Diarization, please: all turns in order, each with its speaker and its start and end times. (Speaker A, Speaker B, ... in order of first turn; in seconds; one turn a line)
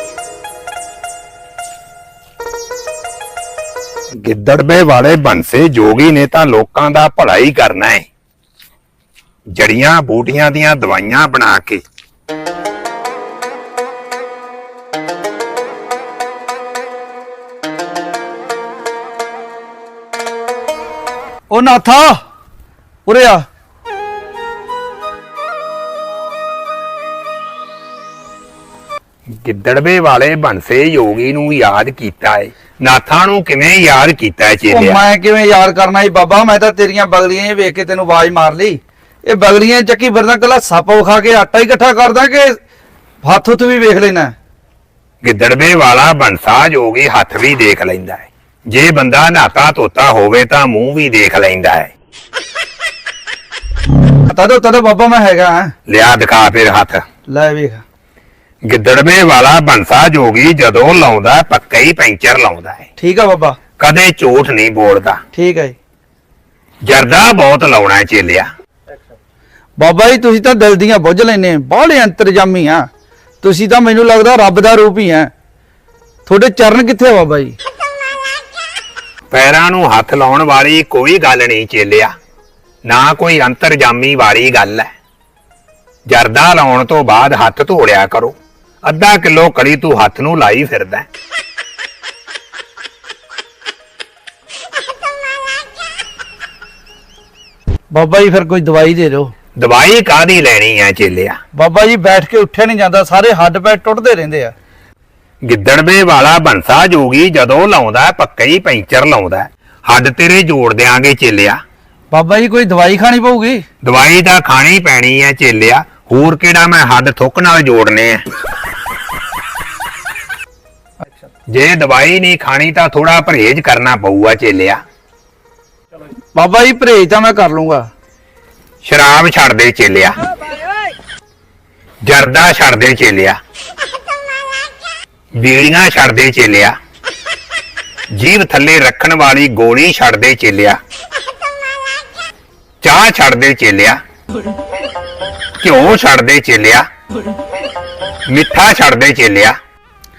Speaker A: 4.2-8.1
Speaker A: 9.5-11.8
Speaker B: 21.5-22.2
Speaker B: 23.1-23.5
Speaker A: 29.4-35.0
Speaker B: 34.7-42.6
Speaker B: 43.2-44.3
Speaker A: 45.2-51.9
Speaker B: 54.3-55.7
Speaker A: 55.9-57.0
Speaker B: 57.3-57.8
Speaker A: 58.7-62.9
Speaker B: 63.0-63.6
Speaker A: 63.8-65.2
Speaker B: 65.3-65.8
Speaker A: 66.9-68.5
Speaker B: 69.8-72.9
Speaker B: 73.4-75.3
Speaker B: 76.3-77.6
Speaker A: 79.3-82.1
Speaker A: 82.9-84.9
Speaker A: 86.1-91.1
Speaker B: 97.9-99.3
Speaker A: 99.6-101.4
Speaker B: 101.5-104.5
Speaker A: 105.4-111.6
Speaker B: 112.1-113.6
Speaker A: 113.8-118.2
Speaker A: 121.5-124.8
Speaker B: 126.3-127.9
Speaker A: 128.8-130.2
Speaker A: 132.1-133.4
Speaker A: 135.4-136.8
Speaker A: 138.2-140.8
Speaker A: 142.8-144.0
Speaker A: 145.6-146.8
Speaker A: 148.3-149.6